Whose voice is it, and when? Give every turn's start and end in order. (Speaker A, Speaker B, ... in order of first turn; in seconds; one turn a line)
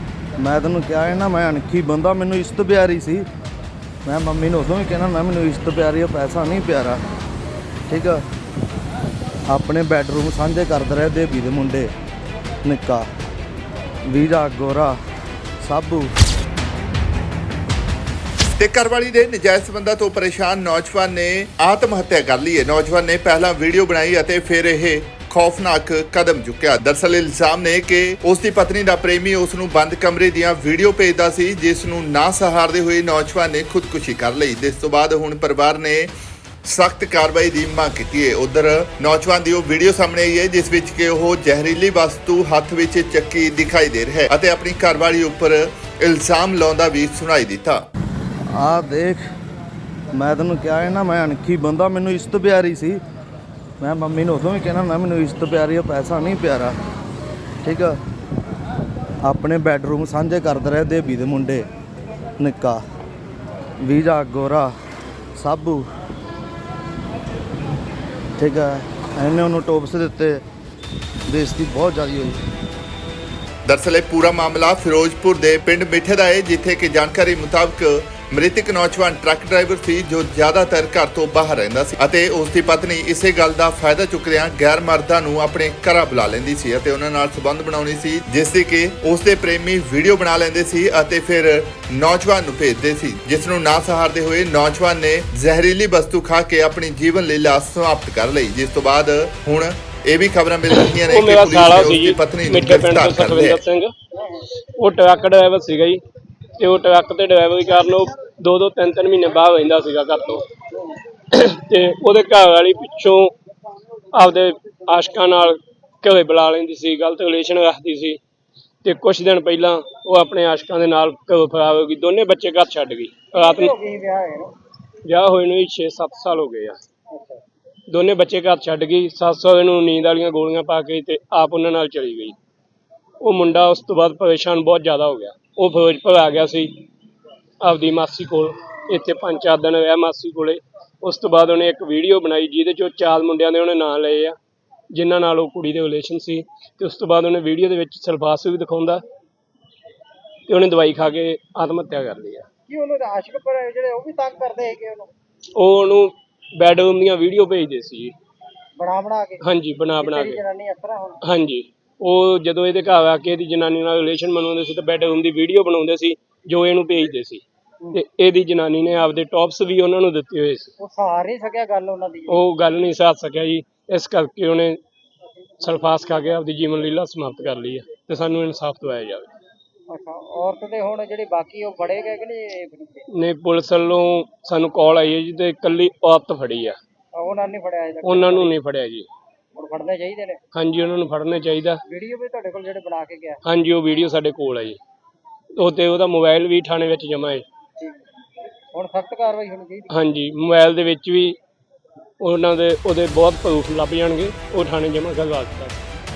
Speaker A: 0.4-3.2
Speaker A: 4.0-7.0
Speaker A: 7.9-8.2
Speaker A: 9.5-11.9
Speaker A: 12.6-13.1
Speaker A: 14.1-15.0
Speaker A: 15.6-16.1
Speaker B: 18.4-36.1
Speaker B: 36.6-47.8
Speaker A: 48.5-49.2
Speaker A: 50.1-53.0
Speaker A: 53.8-56.8
Speaker A: 57.6-58.0
Speaker A: 59.2-61.7
Speaker A: 62.4-62.8
Speaker A: 63.8-64.7
Speaker A: 65.4-65.9
Speaker A: 68.4-70.4
Speaker A: 71.3-72.4
Speaker B: 73.7-103.6
Speaker C: 101.0-103.9
Speaker D: 104.2-104.4
Speaker C: 104.8-106.0
Speaker C: 106.6-110.5
Speaker C: 111.3-113.3
Speaker C: 114.1-118.2
Speaker C: 118.8-123.7
Speaker D: 123.3-124.6
Speaker C: 125.0-126.8
Speaker D: 127.1-127.4
Speaker C: 127.9-132.3
Speaker C: 133.2-136.8
Speaker C: 137.6-144.3
Speaker C: 144.9-149.0
Speaker C: 150.5-152.4
Speaker D: 152.7-155.1
Speaker C: 155.5-158.1
Speaker D: 158.8-161.2
Speaker C: 159.4-160.4
Speaker C: 161.2-170.7
Speaker D: 170.8-172.4
Speaker C: 172.3-174.8
Speaker C: 175.6-179.3
Speaker D: 179.9-183.1
Speaker C: 183.1-186.8
Speaker D: 187.2-188.5
Speaker C: 188.0-189.1
Speaker D: 189.5-190.4
Speaker C: 190.5-191.8
Speaker D: 191.9-193.4
Speaker C: 193.4-194.8
Speaker C: 195.6-197.4
Speaker D: 198.7-199.9
Speaker C: 199.9-201.4
Speaker C: 202.2-205.8